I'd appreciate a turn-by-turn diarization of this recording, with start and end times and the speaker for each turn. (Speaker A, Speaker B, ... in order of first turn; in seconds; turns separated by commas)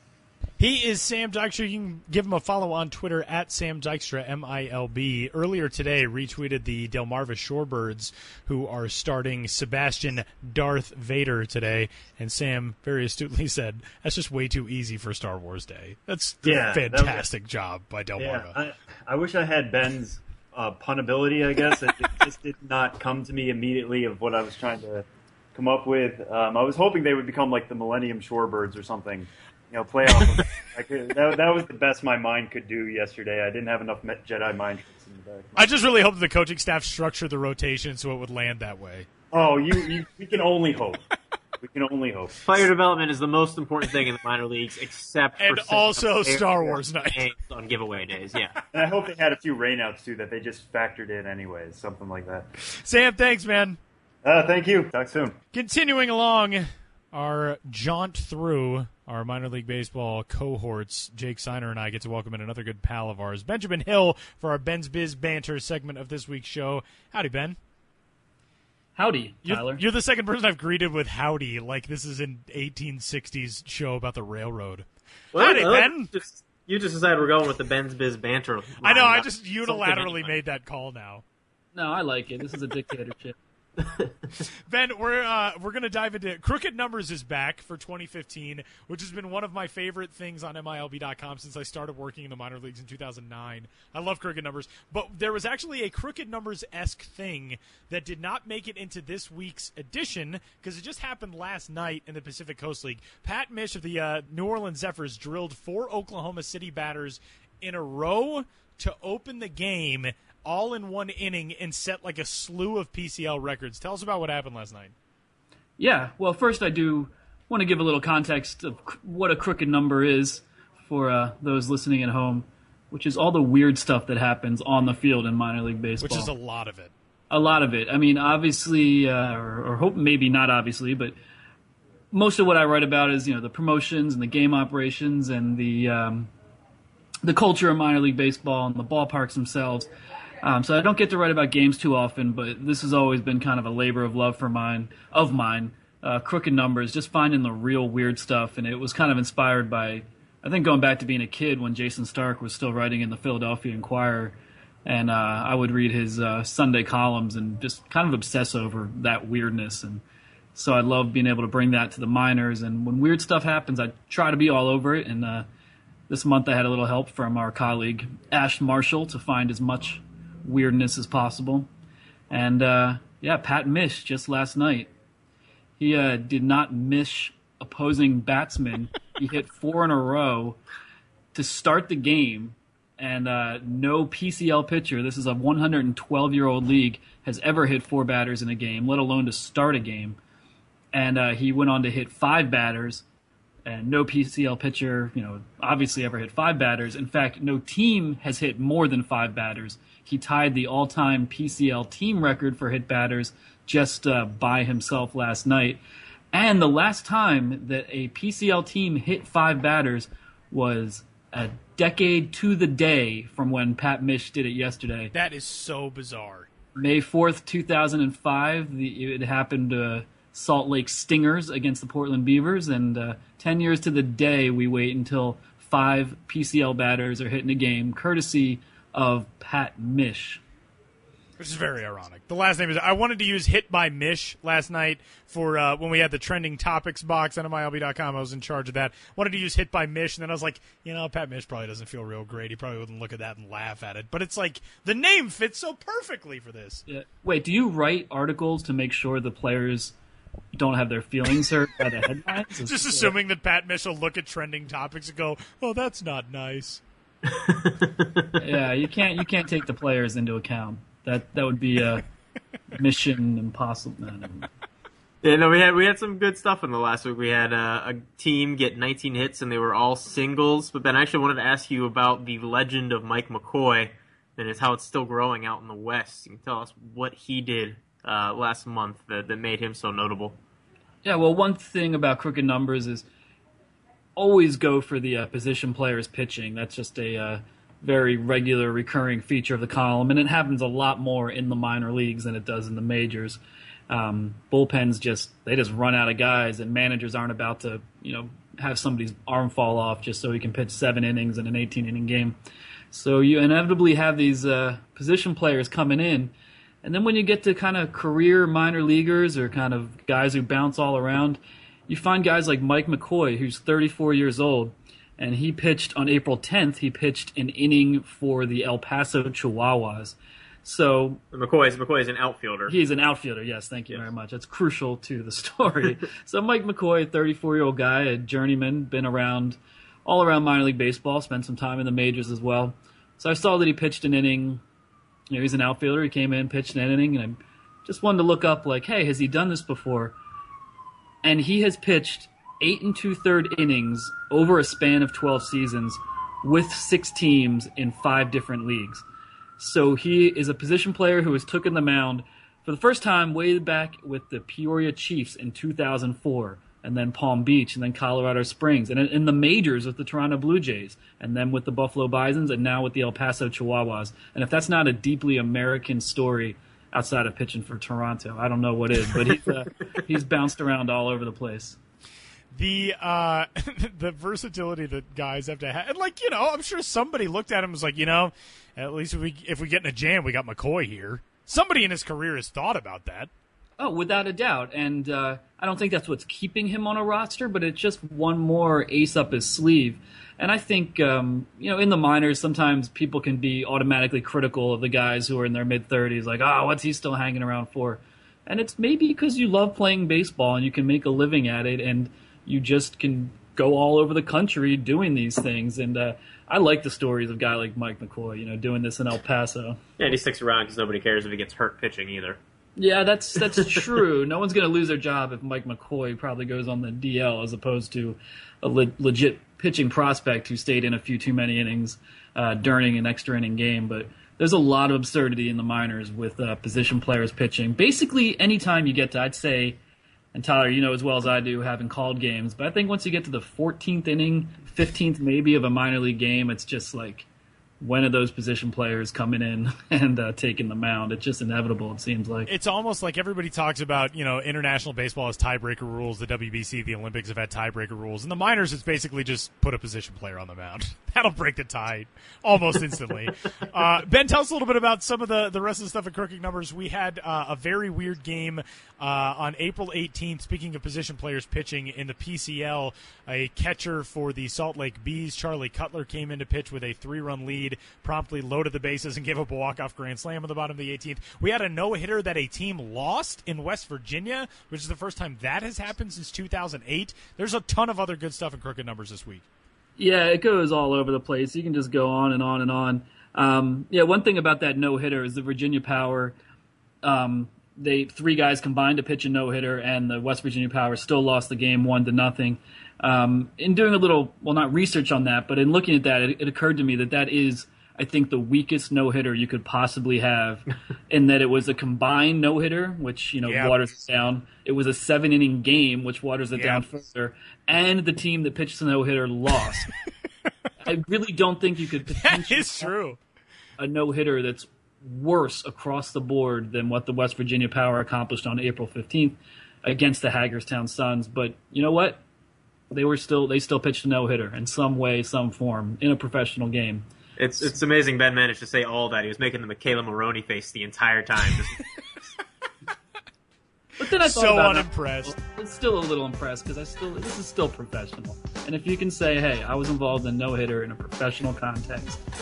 Speaker A: 0.6-18.6, Speaker B: 16.4-17.2, Speaker B: 18.2-35.7, Speaker A: 35.5-39.1, Speaker B: 39.3-41.1, Speaker B: 41.6-42.6, Speaker C: 42.4-48.5, Speaker A: 45.4-47.2, Speaker B: 48.7-52.5, Speaker A: 52.7-53.8, Speaker B: 54.2-55.4, Speaker A: 55.5-67.6, Speaker D: 69.0-69.8, Speaker A: 69.4-76.1, Speaker C: 75.3-80.3, Speaker A: 78.8-81.2, Speaker D: 81.7-83.3, Speaker C: 83.8-84.1, Speaker A: 84.7-114.9, Speaker D: 115.8-126.3, Speaker A: 126.0-126.9, Speaker D: 127.3-131.2, Speaker D: 132.1-136.3, Speaker D: 137.2-139.9, Speaker D: 140.4-160.0, Speaker D: 160.5-165.4, Speaker D: 166.1-171.7, Speaker D: 172.3-174.9, Speaker D: 175.8-180.6, Speaker D: 181.3-190.2, Speaker D: 190.9-193.0, Speaker D: 193.6-215.1, Speaker A: 215.1-216.5, Speaker D: 216.8-230.4, Speaker A: 231.4-246.8, Speaker D: 246.9-249.9, Speaker D: 250.5-253.1, Speaker A: 252.6-256.8, Speaker C: 257.2-258.3, Speaker D: 258.4-262.0, Speaker D: 262.7-264.5, Speaker C: 265.2-280.4, Speaker D: 281.0-283.0, Speaker D: 284.1-302.3, Speaker D: 302.9-306.3, Speaker D: 306.8-321.2, Speaker C: 321.3-322.8, Speaker D: 322.7-334.6, Speaker D: 335.3-340.1, Speaker D: 341.2-349.0, Speaker D: 349.6-371.8, Speaker C: 369.1-369.4, Speaker A: 372.5-383.3, Speaker D: 383.8-409.8, Speaker C: 410.0-412.4, Speaker D: 412.8-429.8, Speaker C: 413.5-413.9, Speaker D: 430.3-437.3, Speaker D: 437.8-442.5, Speaker A: 442.5-479.4, Speaker D: 480.0-486.3, Speaker D: 487.0-509.9, Speaker A: 503.4-503.8, Speaker A: 506.5-506.9, Speaker D: 510.8-512.9, Speaker A: 512.1-513.2, Speaker D: 513.8-522.2, Speaker D: 522.9-527.0, Speaker C: 527.4-531.9, Speaker D: 534.0-542.2, Speaker A: 534.1-535.4